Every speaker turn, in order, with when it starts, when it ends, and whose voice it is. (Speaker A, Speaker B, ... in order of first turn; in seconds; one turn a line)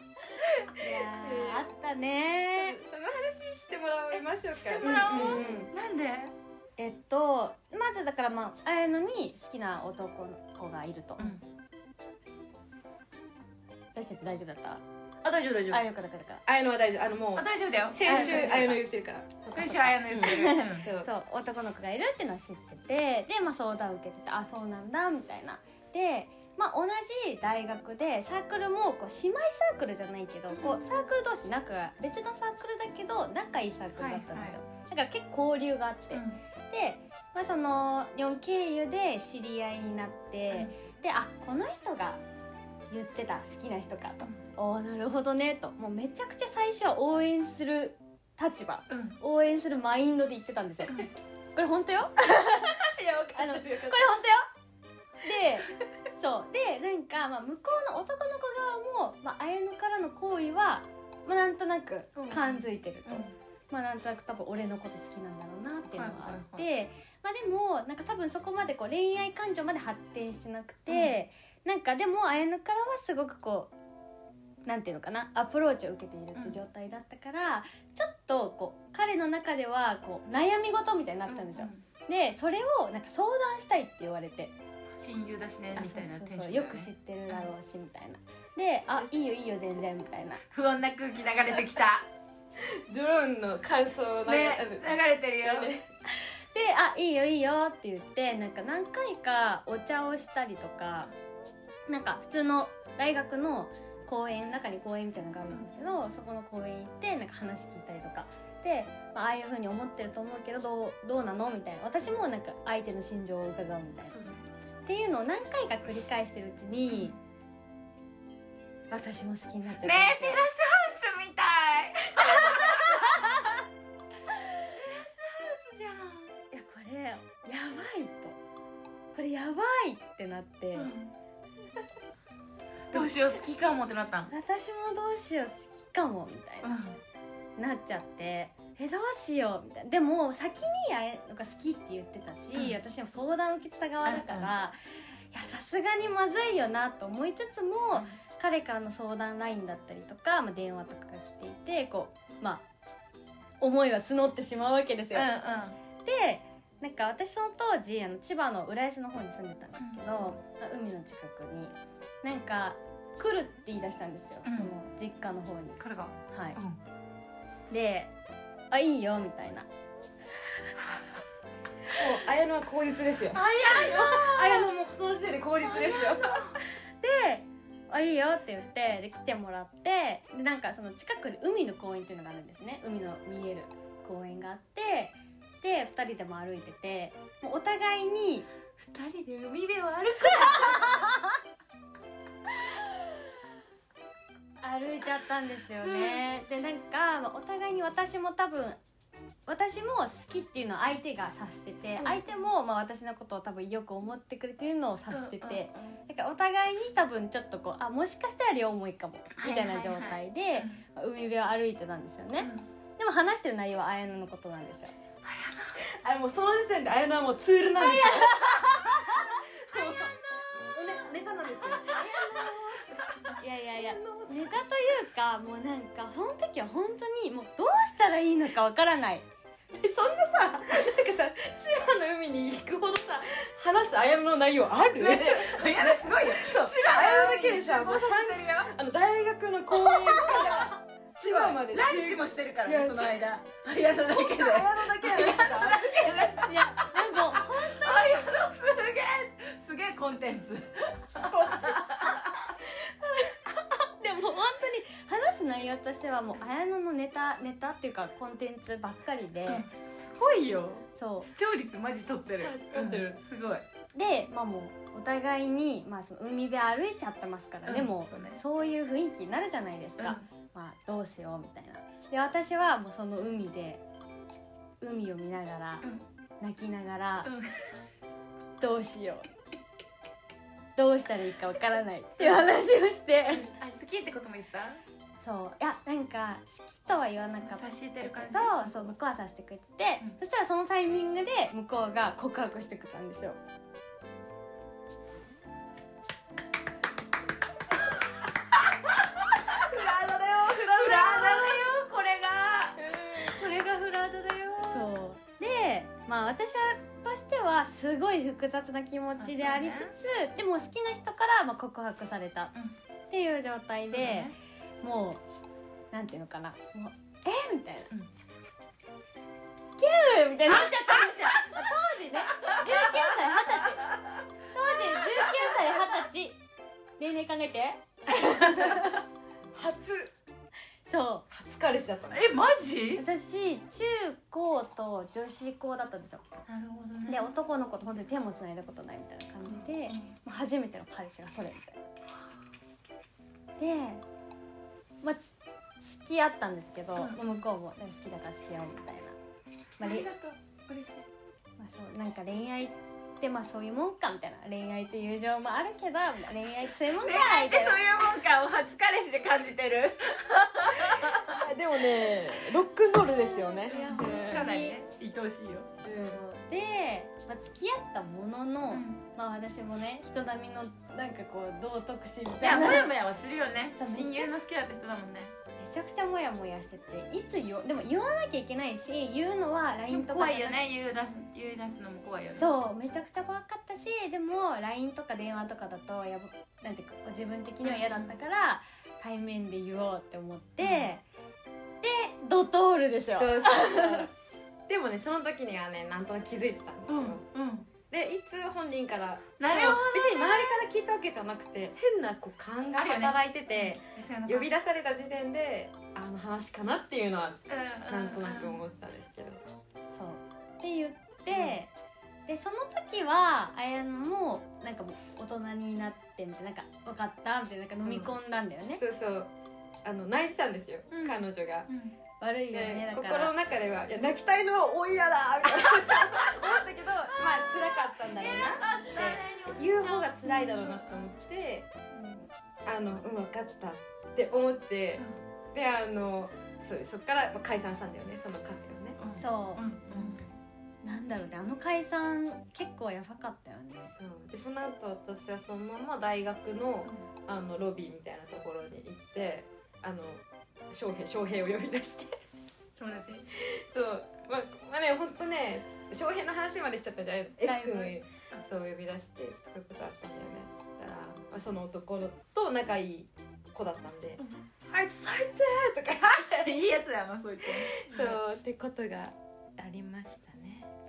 Speaker A: 0.7-2.8
Speaker B: 1.0-1.7
Speaker B: 2.5-5.7
Speaker C: 4.5-6.3
Speaker A: 4.8-5.7
Speaker A: 6.8-11.4
Speaker A: 13.9-14.8
Speaker B: 15.2-15.8
Speaker A: 15.7-16.4
Speaker B: 16.4-19.6
Speaker C: 17.3-18.8
Speaker A: 18.0-18.8
Speaker A: 19.5-42.2
Speaker C: 19.5-20.9
Speaker B: 20.1-21.1
Speaker C: 30.5-30.9
Speaker C: 34.0-34.6
Speaker C: 36.1-36.4
Speaker A: 42.9-54.5
Speaker C: 48.9-49.2
Speaker B: 53.0-53.7
Speaker A: 55.2-73.7
Speaker C: 62.1-63.3
Speaker C: 65.9-66.7
Speaker C: 70.9-71.1
Speaker A: 74.6-84.5
Speaker C: 81.3-81.8
Speaker C: 84.9-87.5
Speaker A: 85.7-90.4
Speaker C: 90.5-92.0
Speaker B: 92.6-94.9
Speaker C: 94.2-95.8
Speaker B: 95.4-95.8
Speaker A: 96.1-101.1
Speaker A: 101.9-114.2
Speaker C: 114.0-114.5
Speaker A: 114.8-117.1
Speaker C: 116.9-117.2
Speaker A: 118.9-120.4
Speaker C: 119.8-123.3
Speaker A: 122.1-123.4
Speaker C: 124.7-126.3
Speaker A: 126.5-128.4
Speaker A: 129.1-130.9
Speaker C: 130.7-131.1
Speaker C: 132.9-134.3
Speaker A: 134.3-136.8
Speaker C: 136.6-137.0
Speaker A: 137.6-144.8
Speaker C: 144.0-144.5
Speaker A: 145.3-152.6
Speaker A: 153.6-155.3
Speaker C: 155.1-155.8
Speaker A: 156.0-166.6
Speaker C: 159.8-160.3
Speaker C: 164.4-164.7
Speaker C: 165.8-166.8
Speaker A: 167.7-168.1
Speaker A: 168.7-169.7
Speaker B: 171.9-176.5
Speaker C: 173.3-174.7
Speaker C: 175.6-176.6
Speaker A: 177.0-188.5
Speaker C: 188.8-191.1
Speaker A: 190.1-191.2
Speaker A: 194.6-198.8
Speaker C: 195.8-196.2
Speaker A: 199.5-214.9
Speaker C: 202.0-202.2
Speaker C: 205.1-206.0
Speaker C: 209.3-210.8
Speaker C: 212.4-212.7
Speaker C: 215.2-215.8
Speaker B: 215.8-218.3
Speaker A: 217.9-219.4
Speaker C: 218.1-218.3
Speaker B: 219.7-222.2
Speaker C: 219.7-220.4
Speaker A: 221.9-229.2
Speaker B: 223.7-224.6
Speaker B: 229.7-246.3
Speaker C: 235.0-238.7
Speaker A: 239.8-240.7
Speaker C: 240.0-252.5
Speaker A: 246.4-248.4
Speaker B: 251.3-251.8
Speaker A: 253.0-259.6
Speaker C: 259.4-263.6
Speaker A: 260.9-261.3
Speaker B: 262.1-263.2
Speaker A: 263.9-273.8
Speaker C: 267.6-268.4
Speaker C: 270.0-270.2
Speaker A: 274.8-275.9
Speaker A: 276.4-277.3
Speaker C: 277.2-277.5
Speaker A: 278.6-279.3
Speaker A: 280.8-283.5
Speaker C: 283.4-284.8
Speaker A: 285.2-293.4
Speaker C: 287.4-288.9
Speaker C: 299.5-299.8
Speaker B: 299.5-301.6
Speaker C: 300.4-304.9
Speaker B: 302.8-303.4
Speaker A: 304.6-312.5
Speaker C: 309.2-309.9
Speaker A: 313.1-315.2
Speaker C: 313.8-314.3
Speaker A: 315.9-317.9
Speaker A: 319.8-323.9
Speaker C: 322.4-323.1
Speaker A: 324.5-326.4
Speaker A: 327.0-329.0
Speaker B: 329.5-330.1
Speaker A: 330.9-331.2
Speaker B: 331.3-332.2
Speaker C: 332.1-333.0
Speaker A: 332.9-336.2
Speaker C: 336.5-337.3
Speaker A: 337.1-341.8
Speaker C: 339.4-340.1
Speaker A: 343.6-344.0
Speaker A: 345.0-349.2
Speaker C: 346.9-347.4
Speaker A: 349.8-350.1
Speaker C: 349.8-351.1
Speaker A: 351.6-357.8
Speaker C: 356.9-361.3
Speaker B: 360.8-364.4
Speaker A: 363.3-364.8
Speaker C: 363.7-365.8
Speaker A: 365.8-372.9
Speaker B: 365.8-366.2
Speaker C: 368.7-369.0
Speaker C: 372.4-375.3
Speaker A: 373.8-374.3
Speaker A: 375.6-380.6
Speaker C: 379.9-382.5
Speaker A: 382.4-391.0
Speaker C: 387.6-388.1
Speaker C: 390.6-390.9
Speaker A: 391.8-394.1
Speaker B: 393.1-394.1
Speaker B: 394.7-397.2
Speaker C: 396.9-397.7
Speaker B: 397.9-409.4
Speaker C: 399.4-400.6
Speaker C: 402.8-404.5
Speaker C: 407.5-408.6
Speaker A: 409.9-411.7
Speaker B: 411.3-411.6
Speaker A: 412.3-418.8
Speaker B: 417.8-418.1
Speaker B: 418.7-419.3
Speaker B: 419.8-421.7
Speaker C: 420.9-421.9
Speaker A: 422.2-423.3
Speaker B: 422.5-431.7
Speaker C: 425.5-426.4
Speaker C: 427.1-431.0
Speaker A: 431.9-432.3
Speaker B: 432.6-439.0
Speaker C: 439.0-440.2
Speaker A: 439.1-440.2
Speaker A: 440.8-443.9
Speaker B: 443.9-452.2
Speaker C: 452.8-453.3
Speaker B: 453.3-466.6
Speaker C: 457.4-458.4
Speaker C: 466.1-468.2
Speaker B: 467.7-470.7